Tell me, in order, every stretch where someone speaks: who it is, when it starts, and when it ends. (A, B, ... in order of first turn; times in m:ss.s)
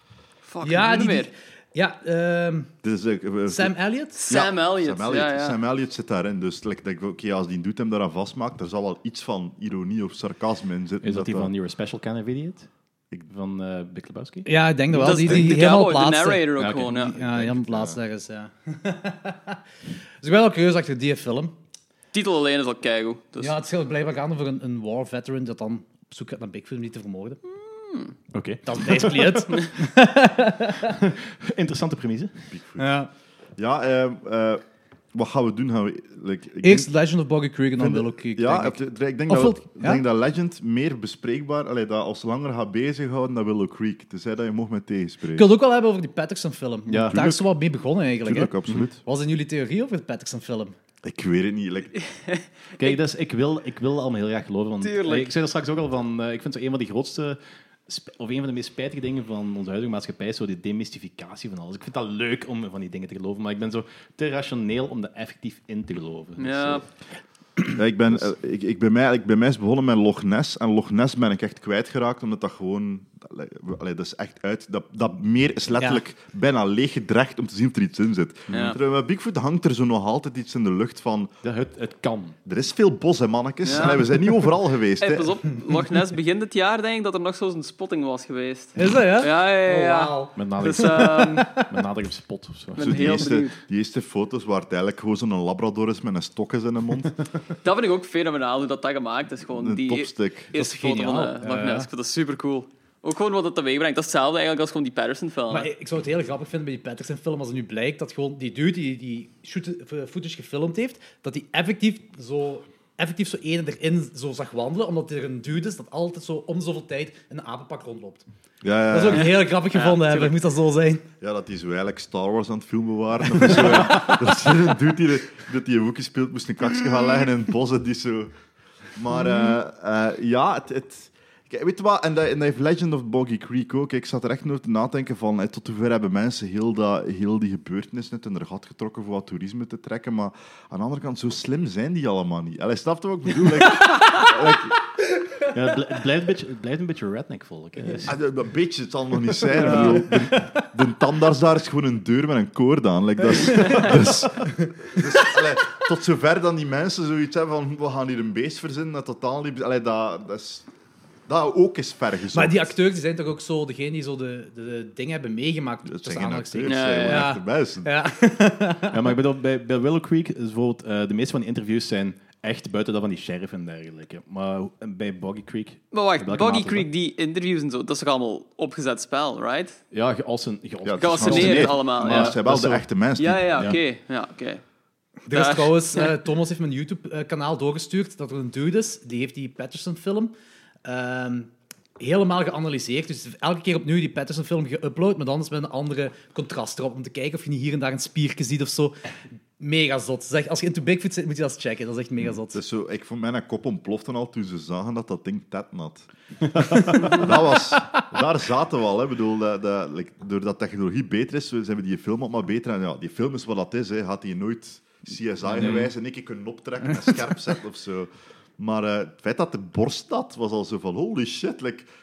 0:00.4-0:01.3 A
0:00.6-0:02.7 B
0:02.8-0:03.8 C
0:03.5-0:04.2 B
0:04.2-0:05.6 A
0:04.3-0:11.5 C
0:11.0-0:12.7 D
0:13.3-0:14.5 D
0:14.4-0:19.6 B
0:14.9-0:17.2 A
0:16.6-0:17.1 D
0:17.2-0:18.0 C
0:20.2-0:21.5 B
0:22.1-0:23.6 A
0:23.4-0:27.4 B
0:27.8-0:28.1 A
0:28.3-0:29.6 D
0:28.7-0:31.0 B
0:30.8-0:32.3 D
0:32.5-0:32.9 C
0:32.8-0:33.1 B
0:33.6-0:34.6 C
0:35.1-0:36.9 C
0:36.6-0:40.0 B
0:37.8-0:45.5 C
0:45.4-0:50.8 B
0:46.9-0:47.4 D
0:47.1-0:47.4 C
0:48.2-0:49.0 C
0:51.0-0:52.0 C
0:52.1-0:53.0 A
0:52.8-1:06.9 D
0:54.8-0:55.3 A
1:06.4-1:06.8 A
1:07.7-1:21.3 C
1:18.5-1:18.8 A
1:18.5-1:18.8 D
1:21.4-1:22.4 D
1:22.5-1:25.4 C
1:23.6-1:24.2 A
1:25.0-1:31.5 A
1:28.8-1:31.7 B
1:30.4-1:33.4 D
1:32.8-1:33.6 A
1:32.8-1:37.2 C
1:37.6-1:45.7 A
1:39.5-1:40.5 C
1:40.5-1:41.9 B
1:45.5-1:58.2 B
1:58.6-1:59.3 C
1:58.9-2:01.0 B
1:59.2-2:00.3 A
2:01.2-2:08.3 C
2:09.0-2:24.8 C
2:25.5-2:28.2 D
2:28.1-2:40.6 C
2:29.6-2:30.5 B
2:29.6-2:30.1 A
2:33.6-2:33.9 B
2:41.3-2:42.7 C
2:42.3-2:49.0 B
2:45.9-2:47.9 C
2:46.6-2:47.3 A
2:48.9-2:56.9 D
2:55.9-2:59.8 A
2:59.9-3:02.8 D
3:00.8-3:03.6 C
3:01.0-3:02.4 A
3:03.2-3:04.6 A
3:03.5-3:03.8 D
3:05.3-3:10.3 B
3:05.3-3:06.2 A
3:10.8-3:19.0 B
3:19.6-3:22.6 B
3:22.2-3:41.9 C
3:26.8-3:27.2 B
3:35.6-3:35.9 D